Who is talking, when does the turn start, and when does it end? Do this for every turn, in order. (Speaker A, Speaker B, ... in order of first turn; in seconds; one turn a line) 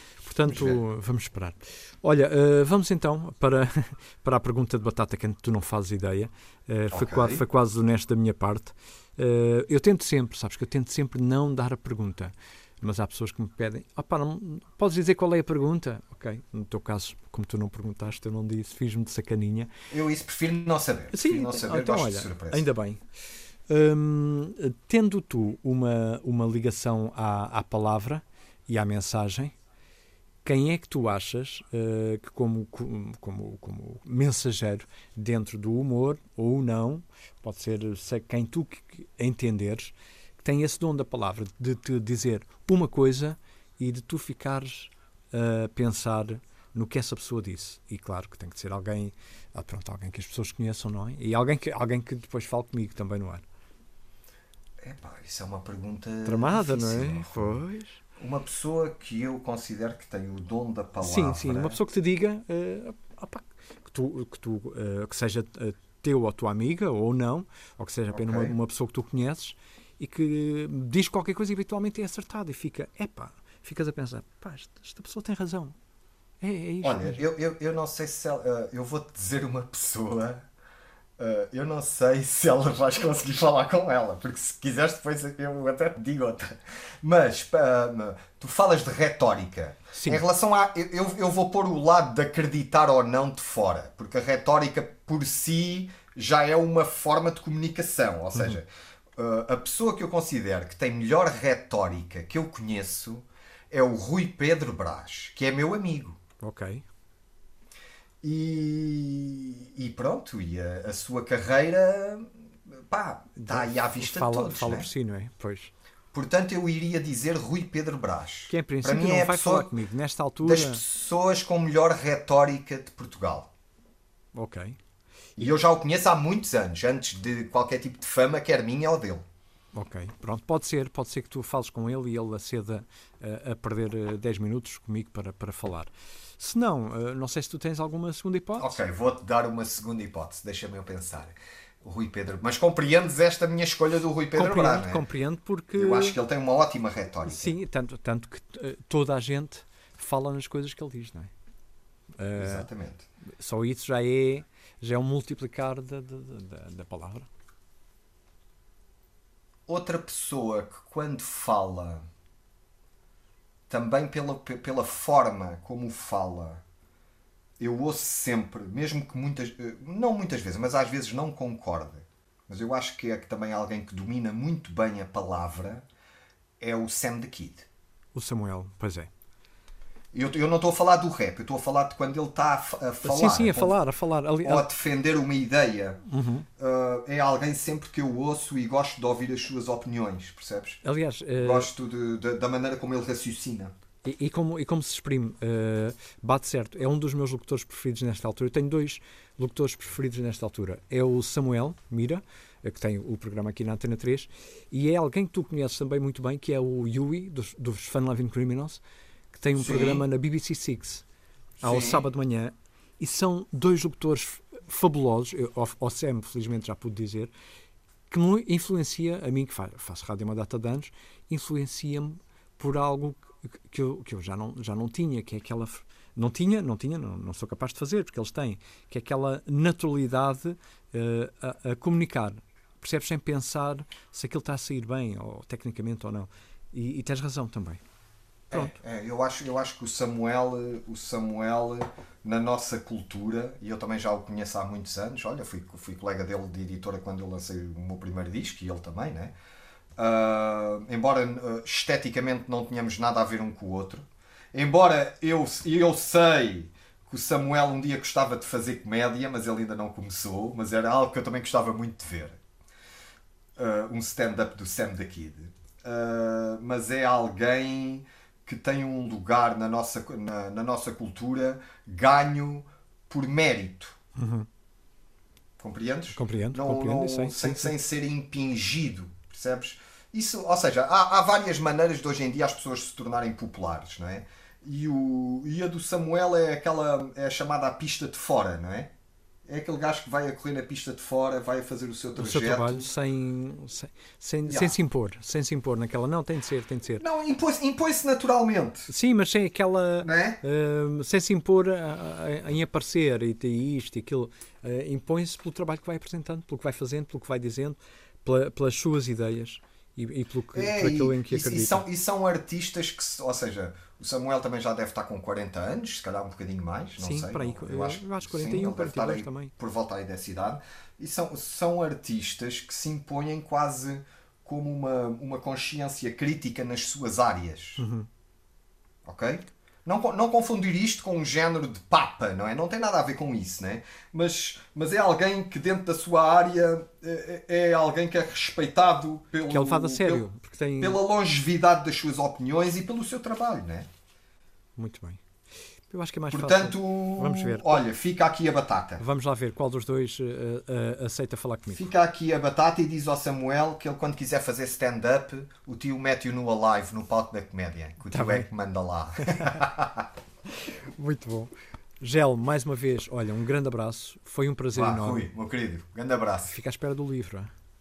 Speaker A: 0.2-19.7
Speaker B: 0.5-0.8
Speaker B: 6.9-7.4
Speaker B: 19.9-22.7
Speaker A: 21.1-23.0
Speaker A: 23.7-29.5
Speaker A: 30.4-53.4
Speaker B: 54.8-57.6
Speaker A: 56.2-58.0
Speaker B: 58.2-61.8
Speaker A: 61.0-75.8
Speaker B: 68.1-68.5
Speaker A: 76.4-77.2
Speaker B: 76.8-80.5
Speaker B: 81.2-106.2
Speaker A: 89.9-90.2
Speaker A: 106.4-106.9
Speaker B: 108.2-112.3
Speaker B: 112.9-114.9
Speaker A: 113.4-115.7
Speaker B: 116.1-119.7
Speaker A: 118.5-120.8
Speaker B: 120.4-123.5
Speaker A: 124.3-124.8
Speaker B: 125.4-129.2
Speaker A: 129.7-138.8
Speaker B: 138.6-145.1
Speaker A: 144.3-146.2
Speaker B: 145.8-147.6
Speaker A: 147.2-151.3
Speaker A: 152.2-152.7
Speaker B: 152.4-153.1
Speaker A: 153.4-157.3
Speaker B: 159.7-162.1
Speaker B: 163.7-166.6
Speaker B: 167.6-175.8
Speaker B: 176.6-177.7
Speaker A: 178.1-179.1
Speaker B: 180.1-183.8
Speaker A: 183.0-184.7
Speaker B: 184.4-186.0
Speaker A: 186.1-186.5
Speaker B: 186.6-190.8
Speaker A: 190.8-191.7
Speaker B: 191.4-193.7
Speaker A: 194.0-208.8
Speaker A: 209.3-211.0
Speaker B: 209.6-210.0
Speaker B: 211.6-212.0
Speaker A: 211.6-217.3
Speaker A: 218.1-237.8
Speaker B: 238.5-249.3
Speaker B: 250.0-262.4
Speaker B: 263.6-274.0
Speaker A: 274.1-274.5
Speaker B: 275.6-288.9
Speaker A: 276.1-277.8
Speaker B: 289.5-292.9
Speaker A: 292.1-297.0
Speaker B: 294.5-294.8
Speaker B: 297.0-298.9
Speaker A: 298.9-311.8
Speaker B: 300.0-300.4
Speaker B: 310.5-327.8
Speaker A: 317.0-319.5
Speaker A: 327.8-328.1
Speaker B: 329.1-340.3
Speaker A: 339.5-341.0
Speaker B: 340.8-343.9
Speaker A: 344.8-345.2
Speaker A: 345.9-347.8
Speaker B: 346.3-349.0
Speaker A: 349.0-351.9
Speaker B: 351.7-360.1
Speaker A: 358.1-358.5
Speaker A: 359.2-359.6
Speaker A: 360.6-365.3
Speaker B: 364.7-366.6
Speaker A: 366.5-367.5